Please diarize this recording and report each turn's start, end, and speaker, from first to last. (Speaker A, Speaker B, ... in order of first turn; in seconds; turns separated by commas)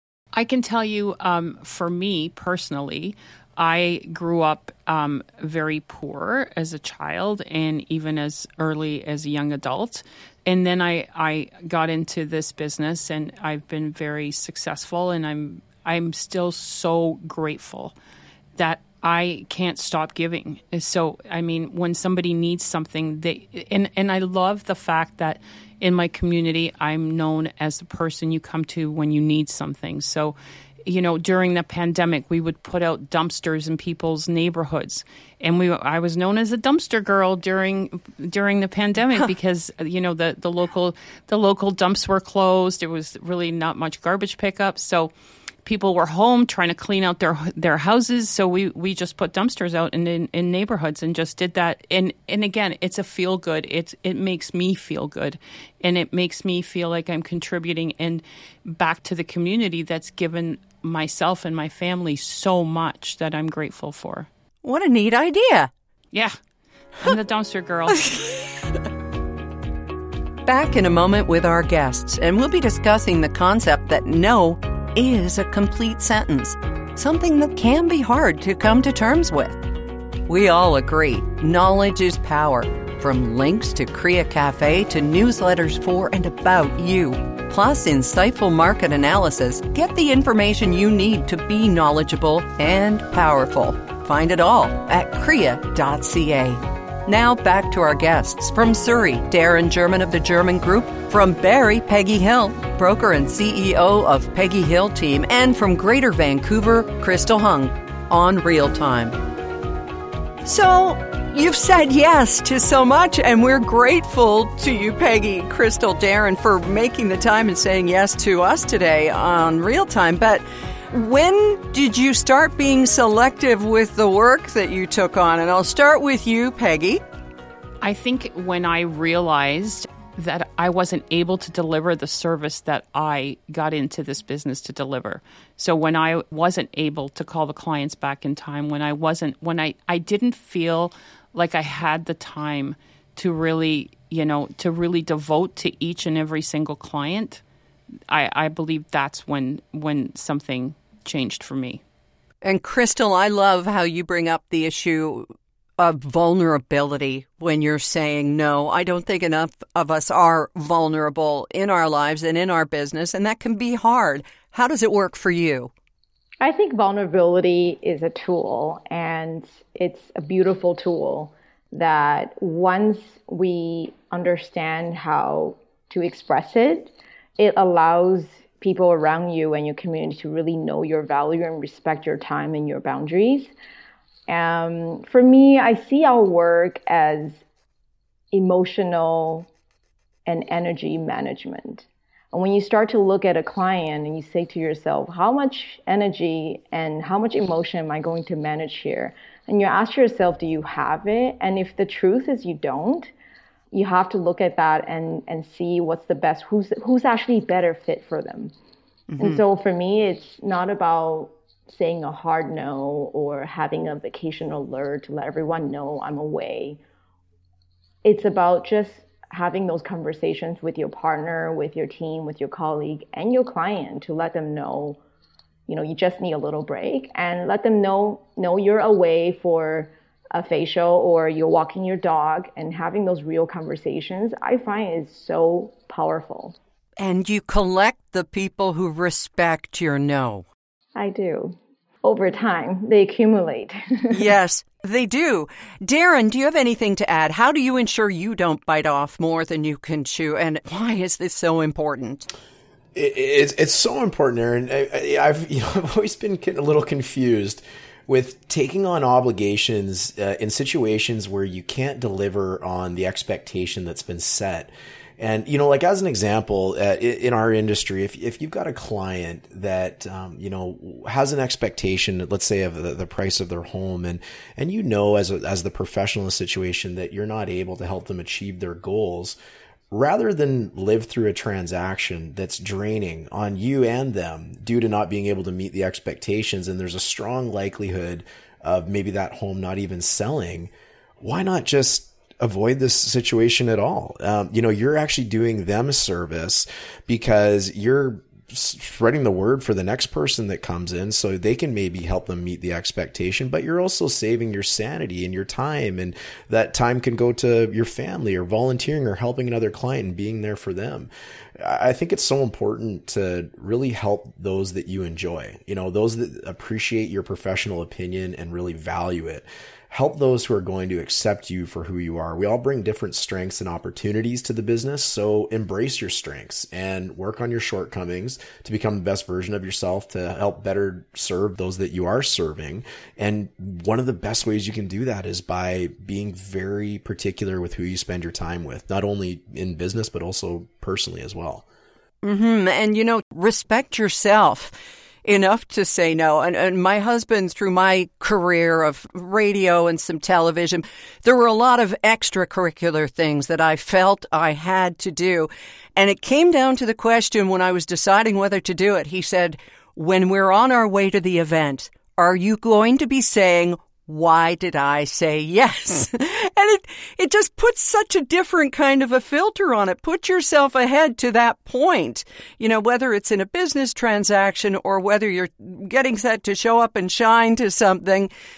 Speaker A: 0.3-17.9, Speaker A: 18.6-45.1, Speaker A: 45.6-64.3, Speaker B: 64.6-65.7, Speaker A: 67.0-68.2, Speaker B: 67.9-68.4, Speaker B: 70.4-79.6, Speaker B: 80.3-109.2, Speaker B: 110.4-127.0, Speaker A: 127.8-147.4, Speaker A: 148.1-151.8, Speaker B: 152.4-155.3, Speaker B: 155.8-165.7, Speaker C: 166.4-183.5, Speaker C: 184.3-187.4, Speaker C: 188.3-189.5, Speaker C: 190.2-203.1, Speaker C: 203.7-208.5, Speaker B: 209.1-209.4, Speaker C: 209.2-216.8, Speaker C: 218.0-225.0, Speaker C: 225.7-236.6, Speaker B: 237.0-240.4, Speaker C: 240.9-244.3, Speaker B: 244.1-252.3, Speaker D: 252.9-279.4, Speaker D: 279.9-341.6, Speaker B: 342.2-378.3